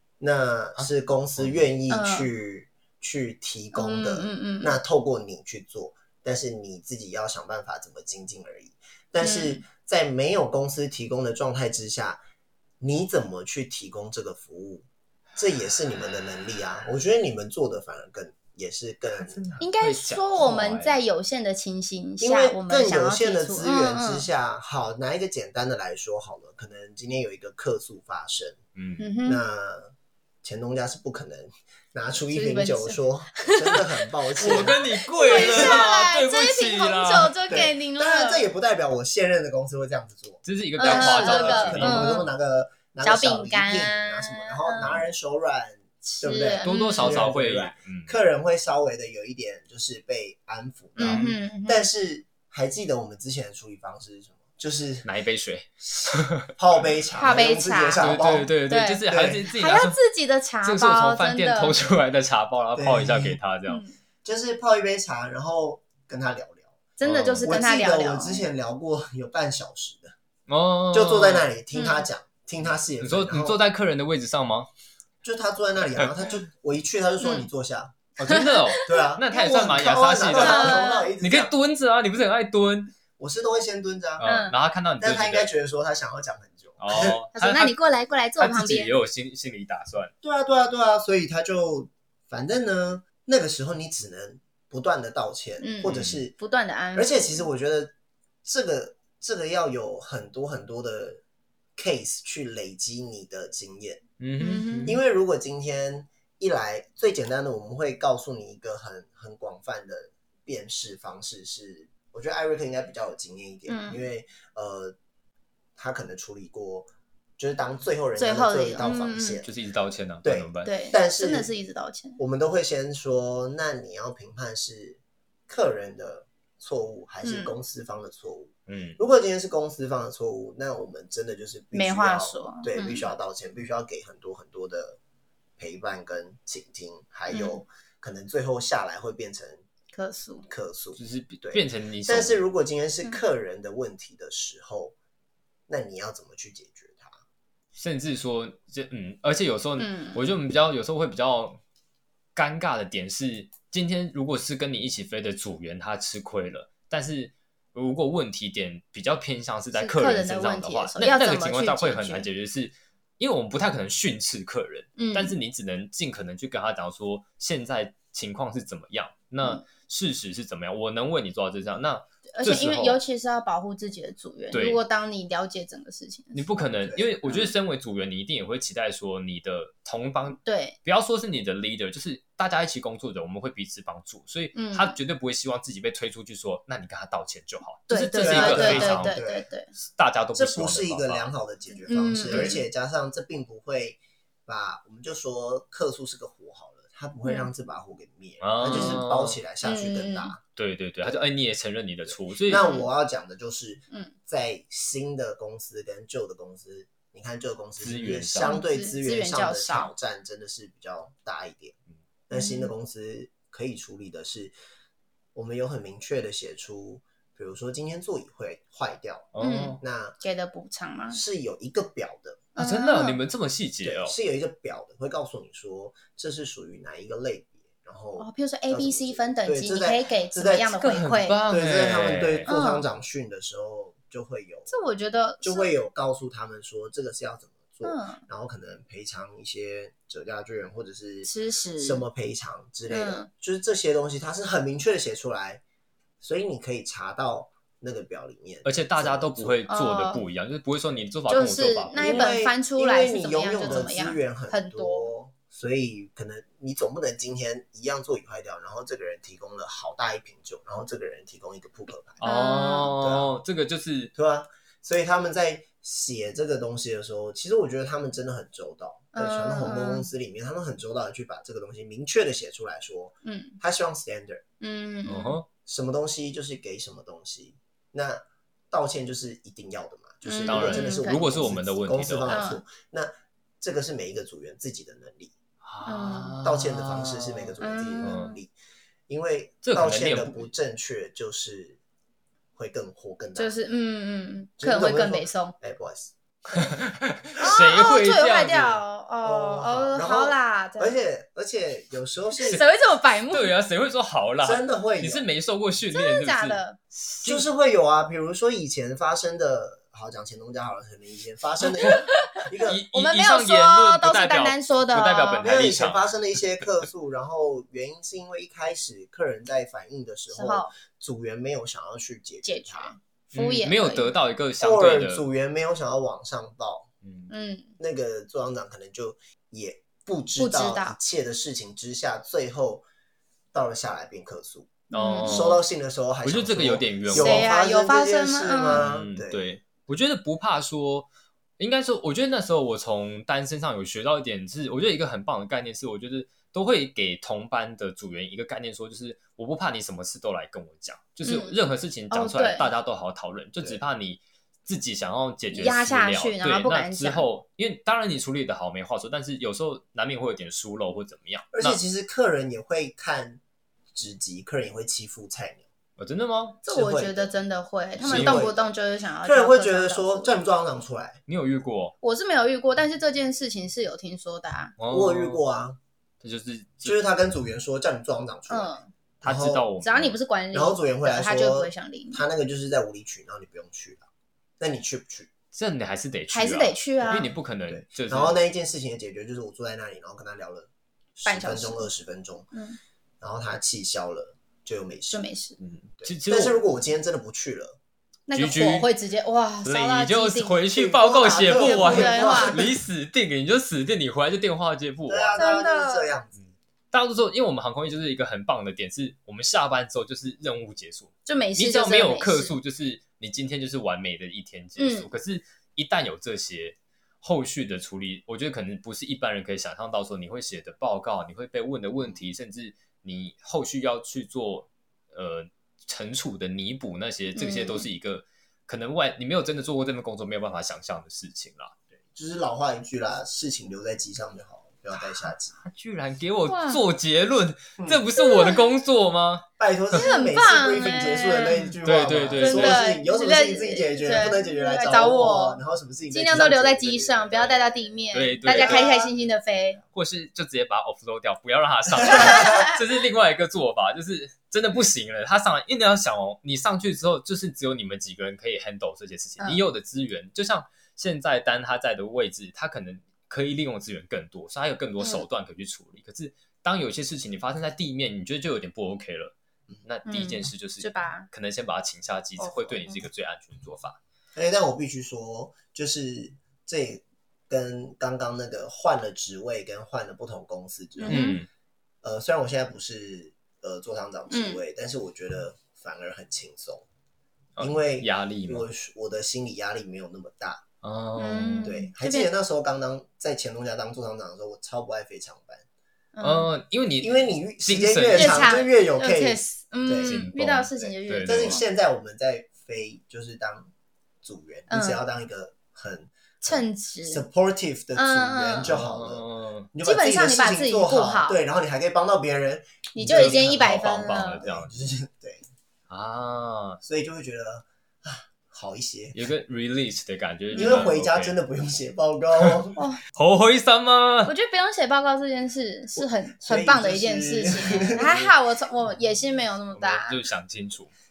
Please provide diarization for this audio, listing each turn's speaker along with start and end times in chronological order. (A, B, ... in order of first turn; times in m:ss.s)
0:00.2-0:12.2 A
0:00.8-0:01.7 B
0:01.9-0:02.3 C
0:03.7-0:04.8 C
0:09.2-0:09.6 C
0:12.8-0:19.6 A
0:19.1-0:21.0 B
0:19.6-0:24.3 C
0:22.2-0:28.6 A
0:28.8-0:29.1 B
0:29.0-0:29.4 C
0:29.2-0:29.9 A
0:30.4-0:35.9 A
0:32.3-0:38.5 C
0:34.4-0:37.3 B
0:37.5-0:55.1 A
0:40.4-0:42.2 B
0:40.8-0:42.3 C
0:43.0-0:45.0 C
0:46.0-0:47.3 C
0:46.6-0:48.2 B
0:51.0-0:51.4 B
0:51.0-0:51.9 C
0:55.0-0:56.5 B
0:56.0-0:58.5 A
0:57.2-0:58.2 C
0:58.0-1:00.0 B
0:58.7-1:01.8 C
0:59.1-0:59.4 A
1:00.6-1:03.8 B
1:02.8-1:03.4 A
1:03.7-1:04.0 C
1:04.2-1:06.8 A
1:07.0-1:08.5 C
1:07.0-1:07.5 B
1:07.4-1:10.2 A
1:10.5-1:11.5 B
1:10.9-1:13.6 A
1:11.7-1:12.1 C
1:13.0-1:14.7 B
1:15.2-1:21.5 A
1:17.2-1:17.5 C
1:18.2-1:18.9 C
1:18.2-1:23.0 B
1:20.3-1:21.1 C
1:23.2-1:24.2 A
1:24.2-1:25.5 B
1:24.2-1:24.6 C
1:25.0-1:27.2 A
1:26.8-1:27.7 B
1:27.4-1:28.9 C
1:28.4-1:30.1 B
1:30.2-1:36.4 A
1:35.6-1:37.4 C
1:35.8-1:36.2 B
1:37.0-1:37.9 A
1:38.4-1:41.2 A
1:41.8-1:44.0 A
1:44.2-1:44.9 B
1:44.4-1:45.0 C
1:44.8-1:55.0 A
1:53.7-1:54.1 C
1:55.8-1:56.9 A
1:57.4-1:59.5 A
1:58.2-1:59.4 C
1:59.4-2:00.7 B
2:00.2-2:01.5 A
2:00.6-2:02.2 C
2:02.2-2:15.0 A
2:07.2-2:07.6 C
2:08.7-2:09.0 B
2:11.7-2:13.1 C
2:15.6-2:19.6 A
2:17.3-2:17.6 C
2:19.9-2:20.5 C
2:20.5-2:25.0 A
2:21.0-2:22.4 B
2:25.7-2:27.2 A
2:27.8-2:31.6 B
2:29.8-2:30.2 C
2:32.4-2:53.0 B
2:39.7-2:42.3 C
2:45.0-2:45.4 C
2:52.3-2:56.4 C
2:54.5-2:54.8 B
2:56.3-3:09.2 B
2:56.8-2:57.1 A
3:00.4-3:00.8 C
3:04.6-3:05.0 C
3:07.9-3:09.7 C
3:08.2-3:09.5 A
3:09.8-3:11.3 B
3:10.4-3:20.4 A
3:11.8-3:12.6 C
3:12.3-3:12.6 B
3:18.4-3:19.4 B
3:18.7-3:19.0 C
3:19.6-3:20.3 C
3:20.6-3:22.7 B
3:22.4-3:31.8 A
3:22.5-3:22.9 C
3:27.8-3:28.6 B
3:28.4-3:29.9 C
3:32.3-3:34.5 A
3:32.3-3:32.7 C
3:35.4-3:40.2 A
3:39.3-3:39.8 B
3:39.4-3:41.2 C
3:41.1-3:42.5 A
3:42.6-3:43.2 C
3:42.6-3:44.2 B
3:43.8-3:50.9 A
3:48.2-3:51.4 C
3:50.8-3:52.5 B
3:51.5-3:54.7 A
3:52.5-3:52.9 C
3:54.7-3:55.7 C
3:55.4-4:05.6 A
3:57.8-3:58.2 C
4:01.2-4:02.0 C
4:02.9-4:03.3 C
4:06.2-4:09.6 A
4:08.6-4:12.3 B
4:09.7-4:10.2 C
4:11.3-4:15.1 C
4:12.0-4:22.2 A
4:13.7-4:13.9 B
4:22.2-4:24.1 B
4:22.2-4:22.9 C
4:23.0-4:23.3 A
4:24.2-4:34.4 A
4:29.1-4:30.1 C
4:33.2-4:33.6 C
4:34.6-4:35.4 C
4:35.1-4:35.5 B
4:35.6-4:45.3 A
4:40.2-4:41.4 C
4:40.5-4:42.4 B
4:42.3-4:42.6 C
4:45.6-4:48.4 B
4:45.8-4:46.4 C
4:46.4-4:48.5 A
4:47.6-4:48.4 C
4:49.1-4:51.8 A
4:49.6-4:50.5 B
4:52.6-4:53.6 A
4:53.4-4:55.6 C
4:54.6-4:56.1 A
4:56.6-4:58.8 B
4:57.4-5:01.0 C
4:59.2-5:02.6 A
5:02.4-5:03.5 C
5:03.3-5:07.5 B
5:04.4-5:05.2 A
5:05.9-5:06.8 C
5:07.2-5:12.8 A
5:11.8-5:15.5 C
5:12.6-5:16.1 B
5:15.4-5:23.0 A
5:20.3-5:20.7 C
5:22.4-5:24.1 C
5:23.3-5:25.2 B
5:24.6-5:26.9 A
5:27.0-5:27.3 B
5:27.3-5:27.8 C
5:27.8-5:32.9 A
5:30.4-5:31.0 C
5:33.5-5:39.5 A
5:34.9-5:35.6 B
5:34.9-5:35.4 C
5:36.2-5:37.5 B
5:37.1-5:38.8 C
5:38.7-6:01.8 B
5:51.2-5:51.6 C
5:52.1-5:52.7 C
5:55.5-5:57.3 C
6:01.5-6:03.4 A
6:03.9-6:05.7 A
6:06.0-6:06.6 B
6:06.6-6:07.3 A
6:06.6-6:10.3 C
6:08.0-6:08.6 A
6:08.0-6:08.5 B
6:09.2-6:11.2 A
6:11.3-6:12.0 B
6:12.0-6:14.8 C
6:14.8-6:15.4 B
6:14.9-6:15.8 A
6:16.2-6:17.0 B
6:16.8-6:19.7 A
6:18.5-6:18.9 C
6:19.2-6:20.2 B
6:19.8-6:22.2 C
6:20.5-6:24.0 A
6:24.6-6:25.3 A
6:25.5-6:28.4 B
6:26.3-6:27.3 C
6:27.0-6:32.5 A
6:31.3-6:31.9 C
6:32.5-6:32.8 C
6:33.2-6:35.2 A
6:35.1-6:35.6 C
6:35.6-6:36.6 B
6:36.0-6:37.8 A
6:38.3-6:40.6 C
6:38.3-6:38.9 B
6:39.6-6:45.6 B
6:40.8-6:42.8 A
6:41.6-6:42.6 C
6:45.1-6:46.5 A
6:45.4-6:46.1 C
6:46.9-7:11.7 B
6:51.3-6:52.6 C
6:54.8-6:55.1 C
7:07.4-7:07.9 C
7:12.1-7:15.6 A
7:15.0-7:20.1 B
7:16.5-7:16.8 C
7:17.8-7:18.0 A
7:18.2-7:18.6 C
7:19.6-7:27.9 A
7:19.9-7:21.8 C
7:21.5-7:22.8 B
7:22.4-7:29.8 C
7:28.1-7:29.0 B
7:28.5-7:29.1 A
7:29.9-7:54.0 B
7:32.0-7:32.5 A
7:32.0-7:32.8 C
7:45.0-7:45.2 C
7:50.1-7:51.3 C
7:52.4-7:53.0 C
7:54.4-8:01.3 A
8:01.0-8:01.4 C
8:01.1-8:01.5 B
8:02.0-8:06.9 A
8:04.3-8:04.6 C
8:07.6-8:08.7 B
8:07.6-8:10.6 A
8:10.8-8:11.7 B
8:11.2-8:12.3 C
8:11.6-8:15.6 A
8:16.2-8:16.5 C
8:16.2-8:18.6 B
8:17.0-8:20.3 A
8:18.1-8:21.6 C
8:20.0-8:21.6 B
8:20.8-8:23.7 A
8:24.2-8:35.4 A
8:24.7-8:25.0 C
8:26.4-8:27.3 C
8:28.0-8:28.7 C
8:28.7-8:29.7 B
8:29.8-8:31.4 C
8:32.9-8:34.4 C
8:33.1-8:34.7 B
8:35.9-8:36.8 B
8:36.8-8:39.2 A
8:39.2-8:41.4 B
8:40.5-8:40.9 C
8:40.6-8:42.8 A
8:42.4-8:44.3 B
8:44.3-8:50.2 C
8:46.0-8:48.4 A
8:49.7-8:50.9 B